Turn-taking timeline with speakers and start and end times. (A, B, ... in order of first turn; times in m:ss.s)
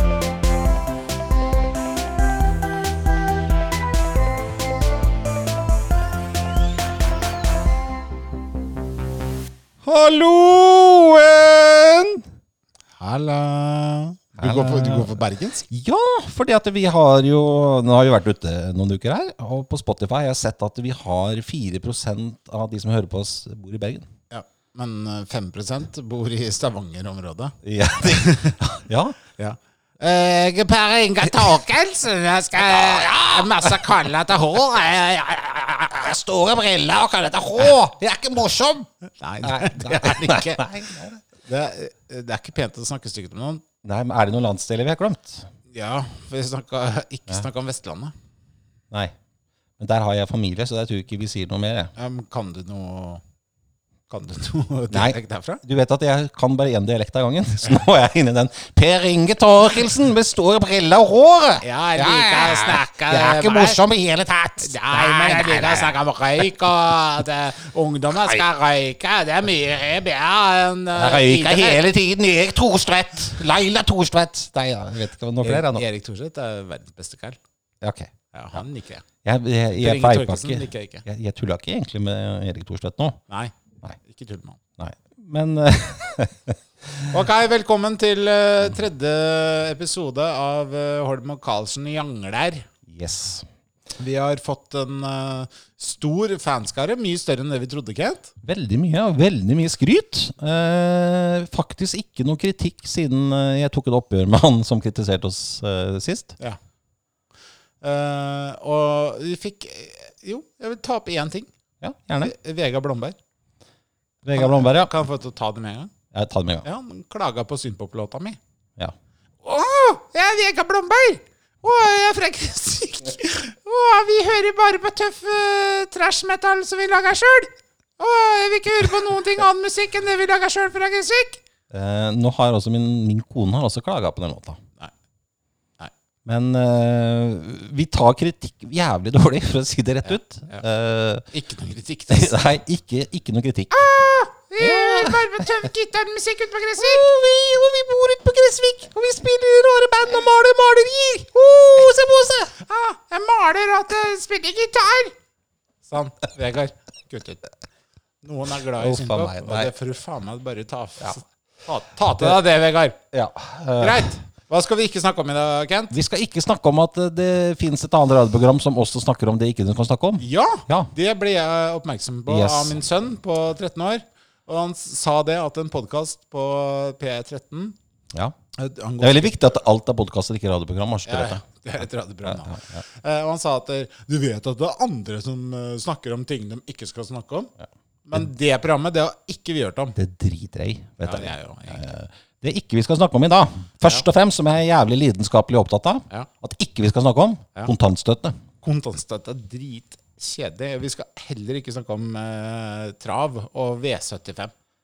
0:09.8-0:12.2 A
0:13.0-0:15.7 B
0:14.4-0:24.1 A
0:24.3-0:28.6 B
0:27.6-0:29.2 A
0:29.4-0:35.5 B
0:31.3-0:31.5 A
0:32.6-0:33.9 A
0:35.2-0:38.9 A
0:39.2-0:40.6 B
0:39.4-0:41.2 A
0:41.4-0:43.6 B
0:43.8-0:45.5 A
0:45.7-0:48.1 B
0:49.8-0:51.9 A
0:52.0-0:53.2 B
0:54.1-0:55.6 B
0:54.9-1:06.0 A
1:01.6-1:03.8 B
1:04.6-1:11.8 B
1:08.2-1:08.4 A
1:11.0-1:15.8 A
1:15.4-1:17.4 B
1:17.8-1:18.6 A
1:18.3-1:19.0 B
1:19.2-1:23.2 A
1:19.8-1:21.1 B
1:23.3-1:24.6 B
1:24.8-1:27.1 A
1:27.1-1:32.7 B
1:32.9-1:33.5 A
1:34.0-1:38.3 B
1:38.4-1:46.4 A
1:47.8-1:51.5 B
1:51.8-1:52.3 A
1:52.2-1:53.2 B
1:54.2-1:54.9 A
1:54.3-1:55.9 B
1:56.1-1:56.7 A
1:56.6-1:58.4 B
1:59.4-2:11.4 B
2:11.7-2:14.6 A
2:16.2-2:21.3 A
2:20.0-2:20.6 B
2:21.3-2:22.4 B
2:22.1-2:23.7 A
2:23.7-2:27.1 B
2:24.6-2:25.5 A
2:26.8-2:32.6 A
2:32.6-2:35.2 B
2:35.8-2:37.4 B
2:38.2-2:43.0 B
2:38.8-2:39.7 A
2:43.1-2:44.1 A
2:43.8-2:45.9 B
2:45.9-2:50.9 A
2:50.2-2:57.8 B
2:52.3-2:52.8 A
2:58.6-2:59.6 B
2:59.0-3:02.8 A
3:01.1-3:07.5 B
3:08.1-3:10.0 B
3:10.0-3:18.4 A
3:11.0-3:11.9 B
3:18.6-3:24.5 B